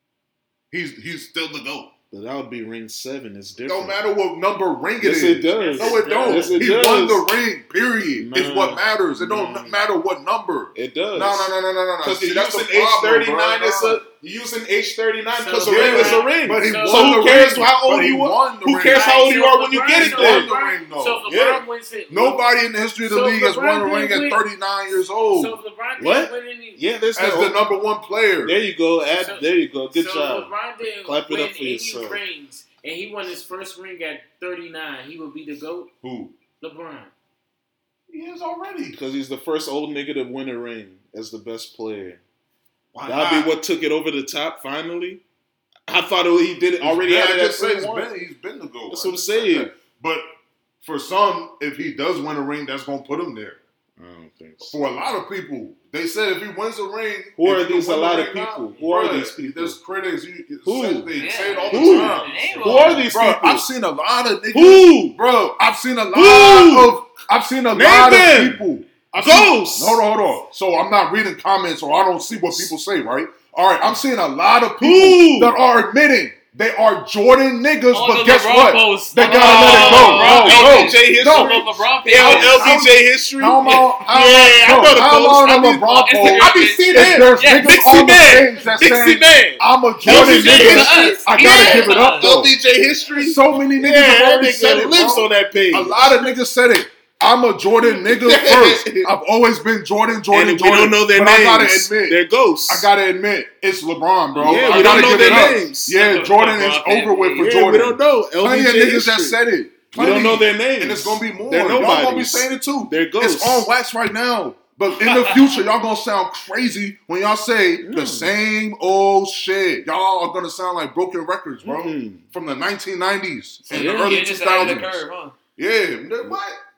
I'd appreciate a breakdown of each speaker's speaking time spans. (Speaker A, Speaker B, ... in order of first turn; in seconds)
Speaker A: 0.7-1.9, 3.6-14.0, 15.6-19.4, 19.9-21.3, 22.1-25.6, 27.1-28.6, 36.0-36.4, 38.1-39.0, 42.9-43.5, 46.8-50.3, 50.8-53.6, 54.6-62.5, 63.1-92.5, 93.1-125.0, 125.6-126.6
Speaker B: 2.1-4.0, 5.0-7.3, 8.2-9.8, 10.8-20.5, 21.3-21.6, 26.0-27.6, 28.4-30.5, 31.0-32.2, 38.9-42.2, 43.1-45.2, 45.9-48.1, 48.9-49.7, 54.0-54.8, 57.4-59.8, 60.6-61.1, 61.7-63.7, 64.5-65.2, 66.1-67.0, 67.7-68.7, 69.2-70.0, 72.4-72.7, 74.8-75.6, 79.2-96.3, 97.8-99.1, 100.3-102.9, 104.4-106.0, 107.4-109.4, 109.9-113.7, 117.8-118.3, 121.6-122.2, 123.7-124.8
Speaker C: 5.5-6.8, 15.3-17.4, 18.9-22.5, 23.0-24.4, 25.3-26.8, 29.1-35.9, 36.6-37.1, 61.2-63.1
Speaker D: 61.2-63.1, 77.9-82.8, 86.0-88.2, 90.0-92.4, 104.3-107.4, 115.1-115.5, 123.7-125.4